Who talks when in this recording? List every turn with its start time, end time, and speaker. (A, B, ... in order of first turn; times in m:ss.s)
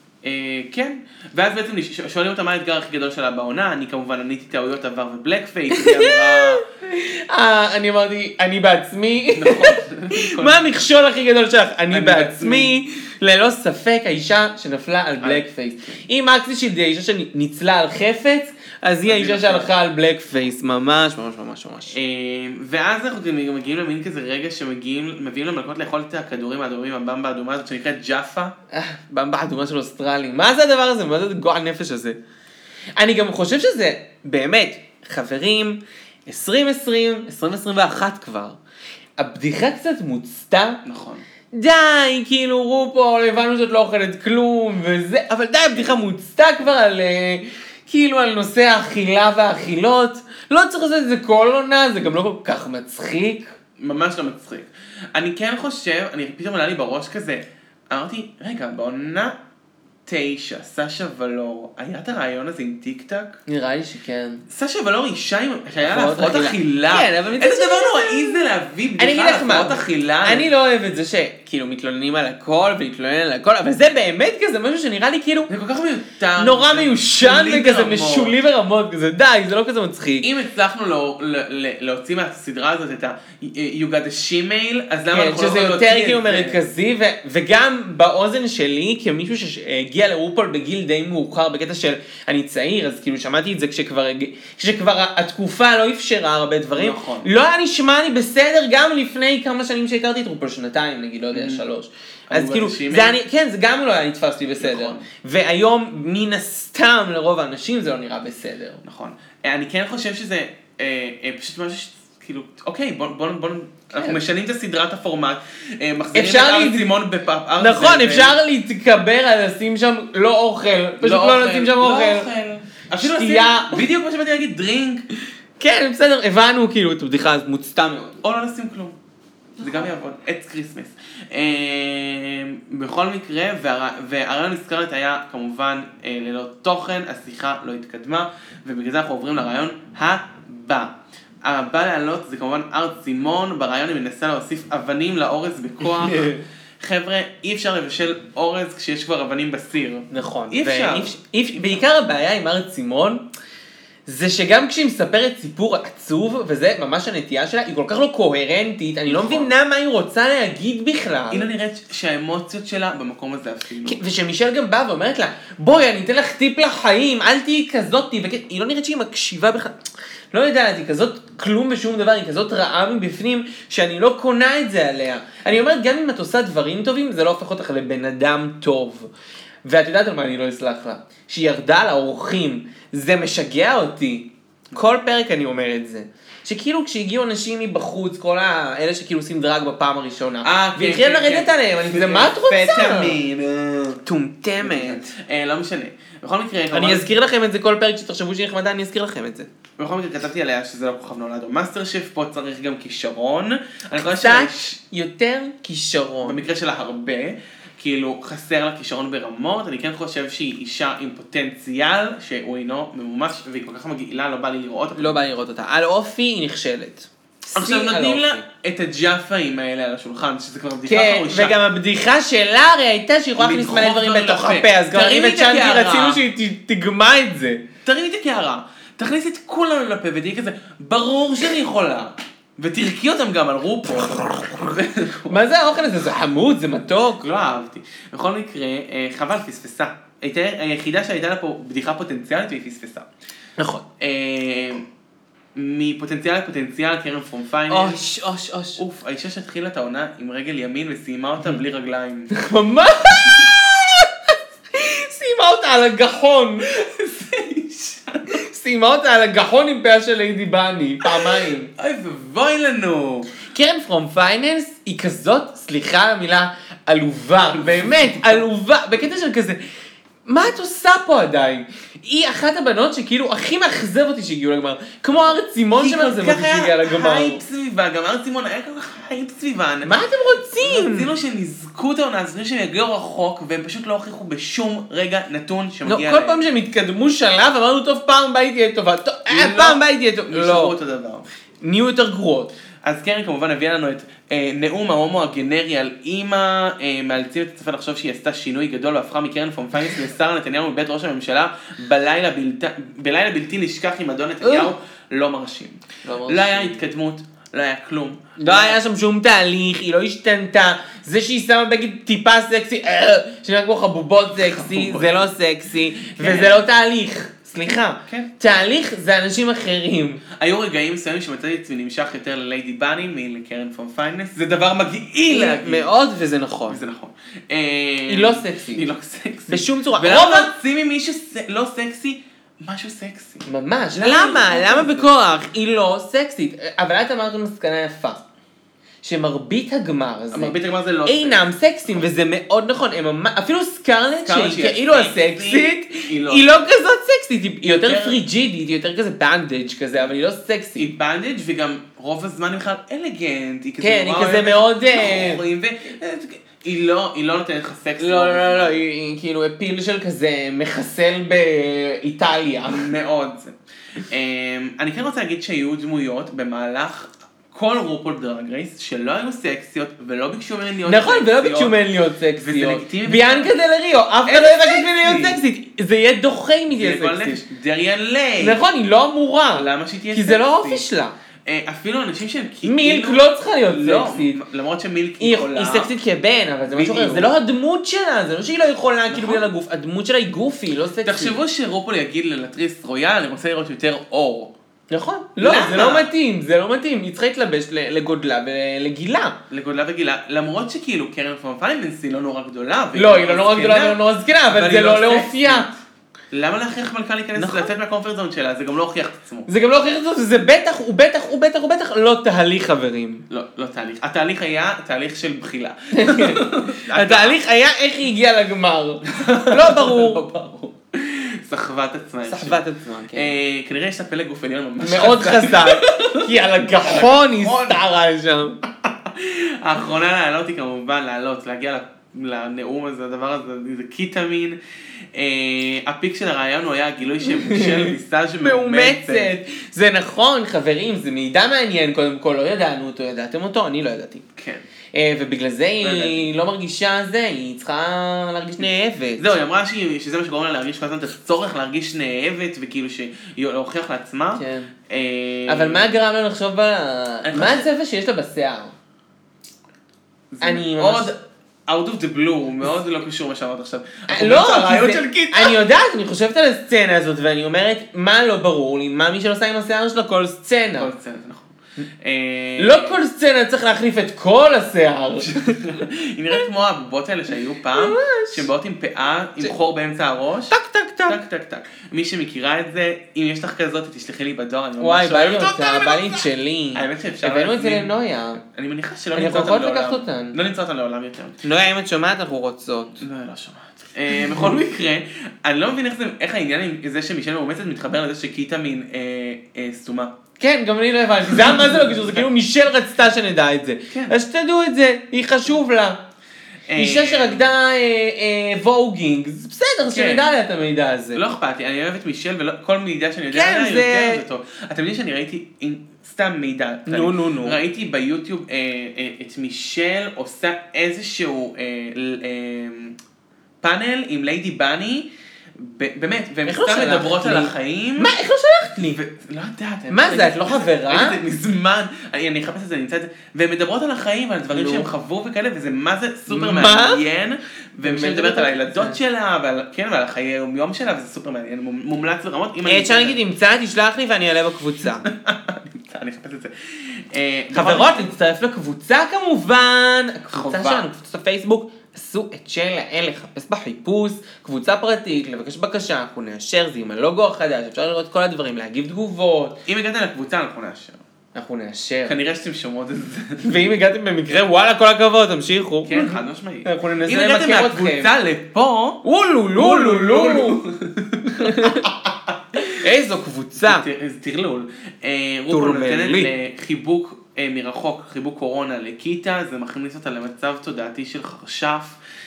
0:00.2-0:06.6 A
0:05.7-0:21.9 B
0:09.3-0:10.6 A
0:11.9-0:12.7 A
0:15.2-0:15.9 A
0:19.0-0:19.7 A
0:21.9-0:28.5 A
0:28.7-0:32.2 B
0:33.0-0:38.6 B
0:39.2-0:40.8 B
0:40.8-0:41.2 A
0:41.5-0:53.5 B
0:53.8-0:59.4 A
1:00.0-1:03.4 A
1:03.5-1:04.4 B
1:04.5-1:10.5 A
1:05.8-1:08.4 B
1:09.0-1:15.5 B
1:15.5-1:18.4 A
1:16.4-1:20.3 B
1:20.2-1:26.6 A
1:25.1-1:48.8 B
1:36.8-1:37.3 A
1:41.3-1:41.6 A
1:42.3-1:43.2 A
1:44.6-1:45.0 A
1:48.8-1:58.4 A
1:53.9-1:54.2 B
1:56.1-1:56.9 B
1:57.6-2:02.3 B
2:01.0-2:05.0 A
2:03.0-2:03.8 B
2:05.6-2:08.2 B
2:08.2-2:09.0 A
2:09.6-2:31.8 A
2:25.8-2:26.4 B
2:30.1-2:33.2 B
2:34.1-2:41.5 B
2:39.1-2:39.5 A
2:41.3-2:44.0 A
2:43.8-2:49.8 B
2:50.3-2:59.1 B
2:59.6-3:13.2 B
3:10.4-3:14.0 A
3:14.0-3:15.1 B
3:14.6-3:17.1 A
3:16.7-3:19.5 B
3:19.8-3:24.8 A
3:23.9-3:26.4 B
3:26.2-3:35.2 A
3:35.0-3:38.4 B
3:37.5-3:41.6 A
3:40.8-3:47.6 B
3:43.4-3:46.2 A
3:47.8-3:55.4 A
3:54.2-3:54.7 B
3:55.3-3:57.3 B
3:57.2-4:03.1 A
4:03.6-4:03.8 B
4:04.0-4:04.8 A
4:05.5-4:08.0 A
4:07.7-4:08.8 B
4:08.8-4:12.3 A
4:12.3-4:16.8 B
4:16.6-4:18.4 A
4:18.3-4:21.7 B
4:21.0-4:23.3 A
4:23.5-4:29.6 B
4:27.5-4:28.4 A
4:30.2-4:37.4 B
4:35.3-4:40.0 A
4:39.8-4:41.1 B
4:40.6-4:46.4 A
4:45.8-4:50.7 B
4:49.3-4:51.3 A
4:51.6-4:52.5 B
4:52.8-5:08.8 A
5:04.4-5:04.7 B
5:06.0-5:06.8 B
5:08.4-5:20.2 B
5:14.4-5:15.3 A
5:16.2-5:16.6 A
5:18.1-5:18.4 A
5:20.3-5:25.9 A
5:25.3-5:26.8 B
5:26.7-5:35.1 A
5:28.1-5:28.9 B
5:29.5-5:30.5 B
5:33.4-5:38.2 B
5:39.0-5:50.9 B
5:40.3-5:41.4 A
5:44.2-5:46.5 A
5:47.6-5:48.2 A
5:50.8-5:58.8 A
5:53.8-5:55.4 B
5:58.0-6:02.9 B
6:02.6-6:11.8 A
6:10.8-6:17.4 B
6:12.4-6:13.6 A
6:14.2-6:15.4 A
6:16.7-6:18.6 A
6:18.4-6:21.1 B
6:19.5-6:20.8 A
6:21.4-6:25.9 A
6:22.6-6:24.4 B
6:25.2-6:31.4 B
6:26.7-6:27.3 A
6:29.1-6:29.4 A
6:31.0-6:34.5 A
6:34.9-6:39.4 B
6:35.4-6:36.1 A
6:39.5-6:45.7 A
6:42.9-6:45.7 B
6:46.3-6:49.5 A
6:47.4-6:47.7 B
6:49.5-6:53.2 B
6:53.3-6:57.4 A
6:55.9-7:00.7 B
6:59.0-7:00.4 A
7:00.9-7:02.6 A
7:02.2-7:03.4 B
7:03.1-7:07.8 A
7:04.8-7:08.6 B
7:09.0-7:14.6 A
7:15.1-7:19.3 A
7:17.3-7:24.2 B
7:24.4-7:24.6 A
7:24.9-7:29.3 B
7:25.8-7:26.3 A
7:29.2-7:36.0 A
7:34.4-7:34.7 B
7:35.5-7:38.7 B
7:37.2-7:37.7 A
7:40.3-7:45.6 A
7:40.4-7:41.1 B
7:44.1-7:50.9 B
7:50.8-7:53.0 A
7:52.6-7:55.6 B
7:55.2-8:00.5 A
7:57.7-7:58.5 B
8:00.5-8:01.2 B
8:01.1-8:07.9 A
8:04.8-8:08.4 B
8:08.5-8:11.4 A
8:09.1-8:10.4 B
8:11.4-8:13.0 B
8:13.0-8:20.2 A
8:20.4-8:26.0 B
8:21.3-8:22.2 A
8:23.9-8:24.2 A
8:26.7-8:27.5 A
8:26.8-8:31.2 B
8:29.9-8:30.4 A
8:31.1-8:43.0 A
8:33.3-8:34.2 B
8:36.9-8:37.6 B
8:43.6-8:48.1 A
8:46.4-8:49.0 B
8:48.8-9:03.2 A
8:49.9-8:51.2 B
8:54.5-8:54.9 B
8:56.3-8:57.0 B
8:57.8-8:59.0 B
9:02.6-9:05.1 B
9:05.0-9:08.1 A
9:07.5-9:19.6 B
9:10.3-9:10.9 A
9:19.6-9:21.0 A
9:21.3-9:22.2 B
9:22.1-9:23.6 A
9:23.4-9:28.1 B
9:25.8-9:29.0 A
9:29.0-9:30.6 B
9:29.5-9:32.4 A
9:31.3-9:31.9 B
9:32.6-9:33.8 B
9:33.6-9:42.0 A
9:35.5-9:36.3 B